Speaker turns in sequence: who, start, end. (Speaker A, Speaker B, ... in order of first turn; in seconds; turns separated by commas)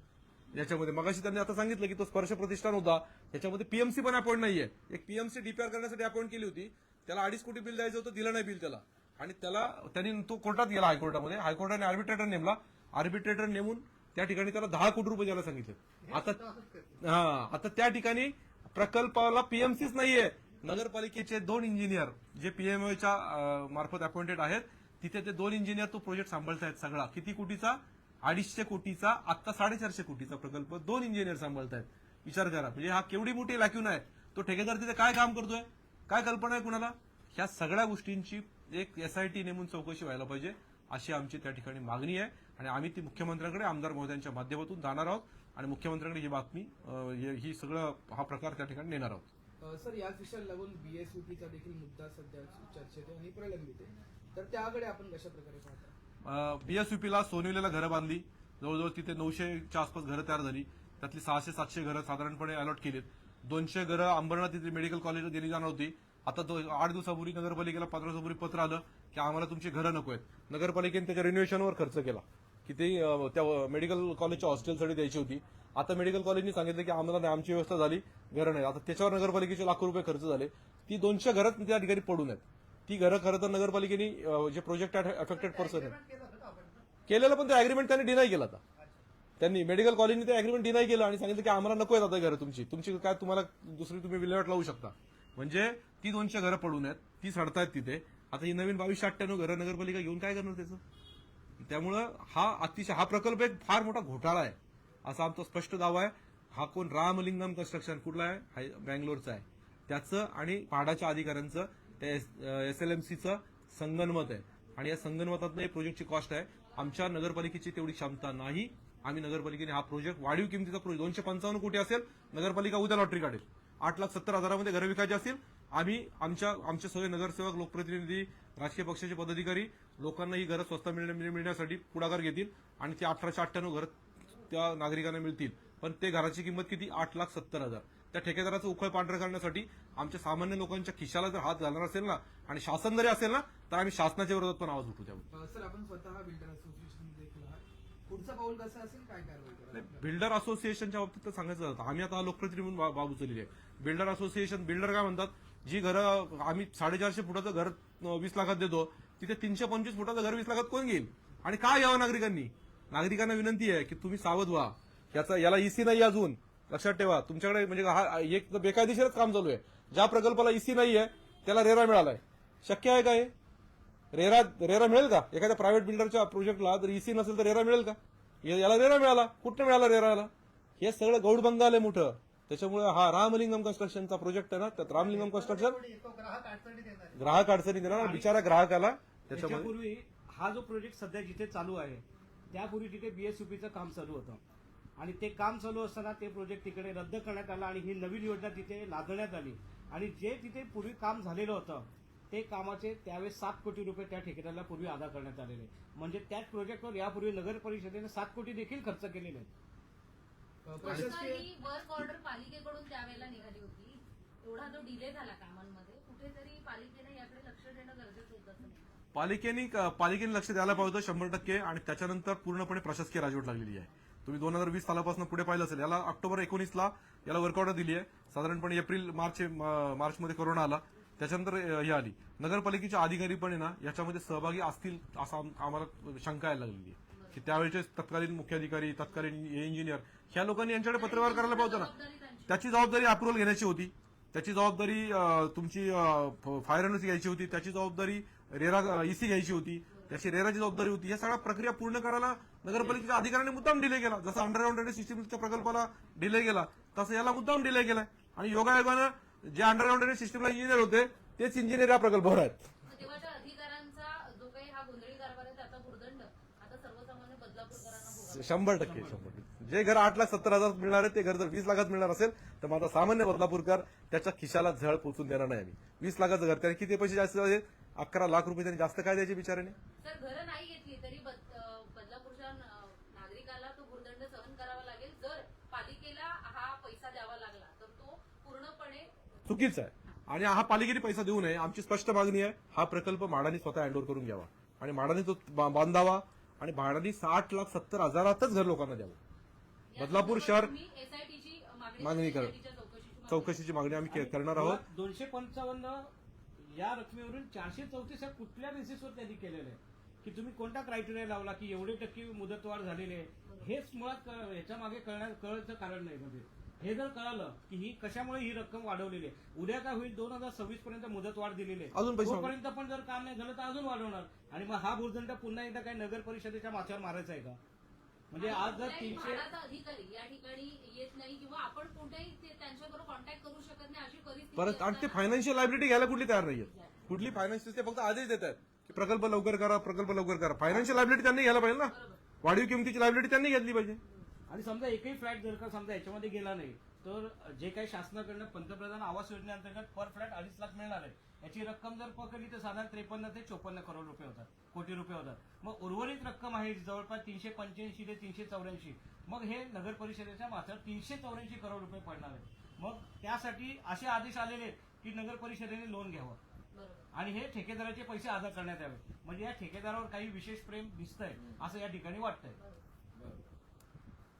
Speaker A: 0.5-16.4, Speaker B: 16.1-17.0, Speaker A: 17.0-49.2, Speaker C: 49.6-55.9, Speaker A: 56.2-86.0, Speaker B: 85.2-86.8, Speaker A: 87.1-88.6, Speaker A: 89.4-100.8, Speaker A: 101.6-133.9, Speaker A: 134.5-145.2, Speaker C: 145.3-150.1, Speaker A: 149.7-173.3, Speaker A: 174.1-185.8, Speaker B: 185.0-187.2, Speaker A: 187.2-189.7, Speaker D: 188.0-188.4, Speaker D: 189.3-194.4, Speaker D: 195.0-209.5, Speaker C: 210.6-211.5, Speaker E: 210.8-218.9, Speaker A: 219.1-241.9, Speaker E: 237.1-237.4, Speaker E: 240.9-242.6, Speaker A: 242.5-262.7, Speaker E: 262.9-268.9, Speaker A: 268.2-279.8, Speaker D: 268.8-269.1, Speaker E: 280.0-289.1, Speaker A: 289.4-299.2, Speaker E: 299.9-303.6, Speaker A: 300.0-300.7, Speaker A: 302.0-302.5, Speaker A: 303.3-304.8, Speaker D: 304.1-327.6, Speaker A: 321.9-322.5, Speaker D: 328.3-329.4, Speaker E: 328.4-335.3, Speaker A: 334.5-344.0, Speaker E: 341.8-342.2, Speaker D: 344.5-366.4, Speaker E: 366.7-367.1, Speaker D: 367.1-372.6, Speaker E: 372.6-373.4